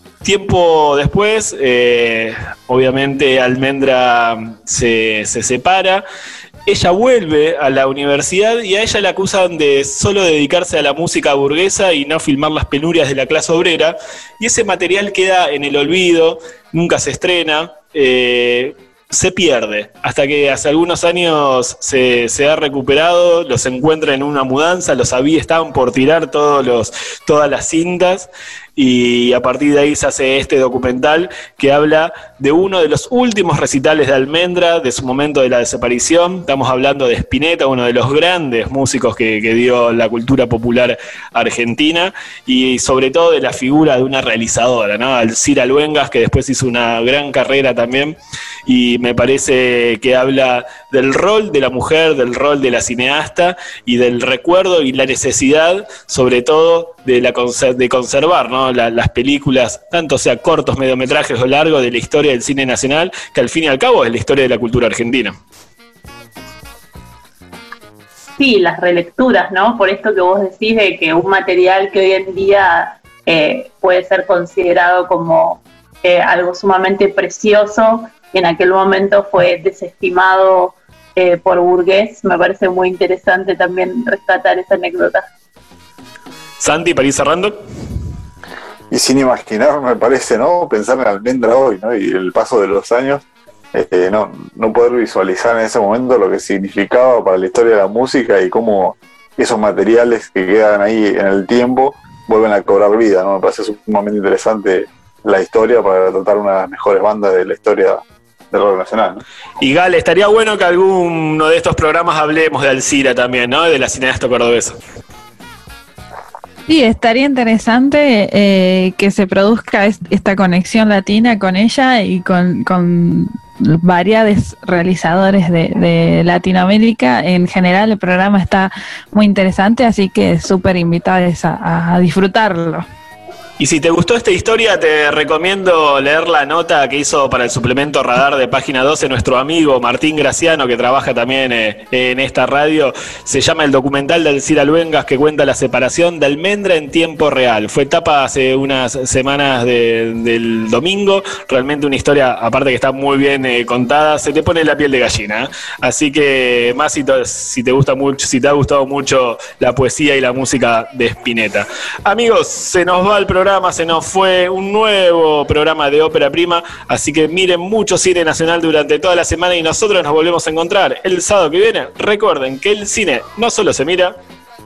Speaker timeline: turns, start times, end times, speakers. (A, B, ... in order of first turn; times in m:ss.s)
0:00.2-0:06.0 A
0:06.7-1:05.4 A
1:08.4-1:25.2 B
1:26.6-1:27.6 A
1:28.9-1:49.2 C
1:49.6-1:54.8 A
1:56.7-2:12.9 D
2:13.6-2:54.2 A